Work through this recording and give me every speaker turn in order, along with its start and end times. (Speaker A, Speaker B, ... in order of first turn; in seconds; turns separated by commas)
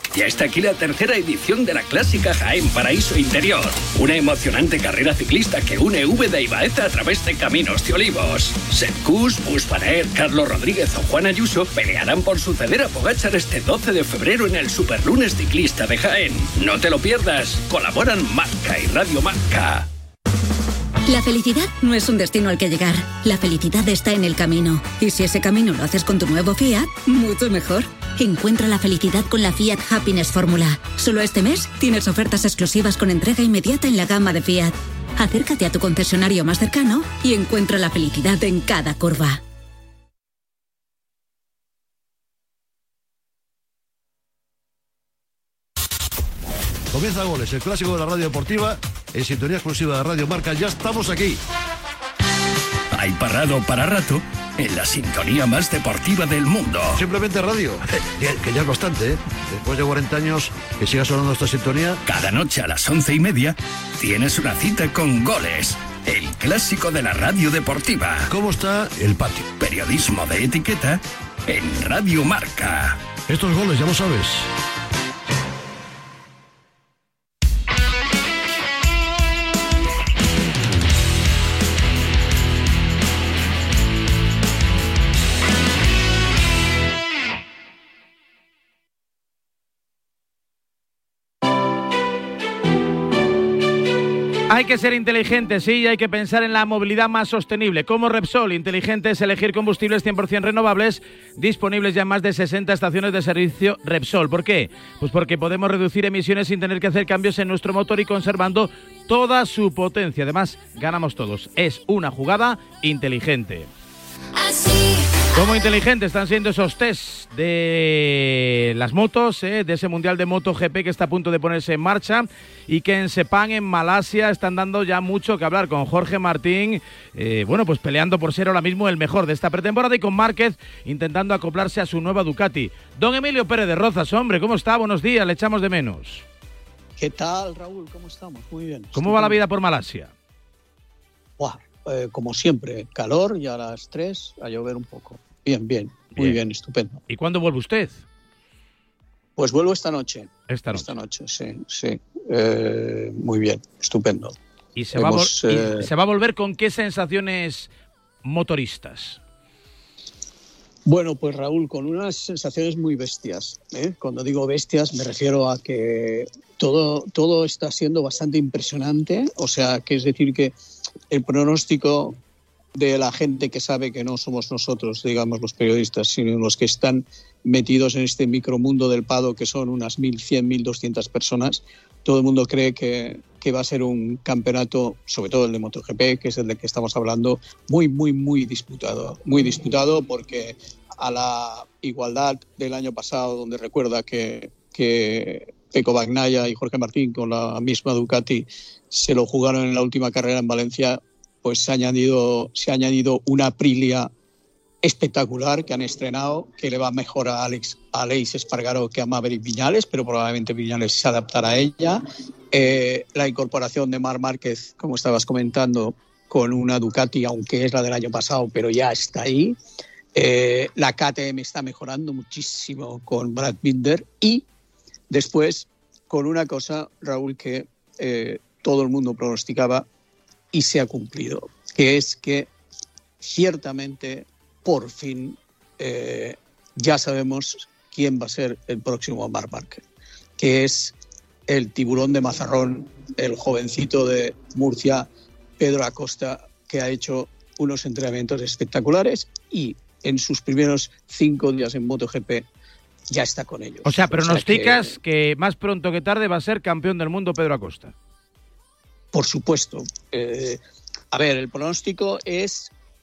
Speaker A: 0.1-19.9, Speaker B: 21.1-39.4, Speaker C: 46.9-51.4, Speaker A: 52.9-56.9, Speaker C: 56.9-62.0, Speaker A: 62.1-68.3, Speaker C: 68.2-69.5, Speaker A: 69.5-73.0, Speaker C: 73.3-74.5, Speaker D: 94.5-113.7, Speaker D: 115.3-136.2, Speaker E: 137.0-139.4, Speaker D: 138.9-140.1, Speaker E: 141.4-147.0, Speaker D: 146.1-146.4, Speaker D: 147.1-148.0, Speaker E: 149.4-154.3, Speaker D: 150.5-151.0, Speaker D: 154.8-157.7, Speaker E: 154.9-155.9, Speaker D: 158.2-159.2, Speaker E: 160.8-170.5, Speaker E: 171.1-172.2, Speaker E: 172.7-204.1, Speaker E: 204.8-219.6, Speaker E: 220.1-224.4, Speaker E: 225.1-229.8, Speaker E: 230.5-232.5, Speaker E: 233.2-239.8, Speaker E: 240.4-240.9, Speaker E: 241.5-245.1, Speaker E: 245.6-252.4, Speaker E: 253.1-255.0, Speaker D: 253.8-257.9, Speaker E: 259.1-260.6, Speaker E: 261.1-262.7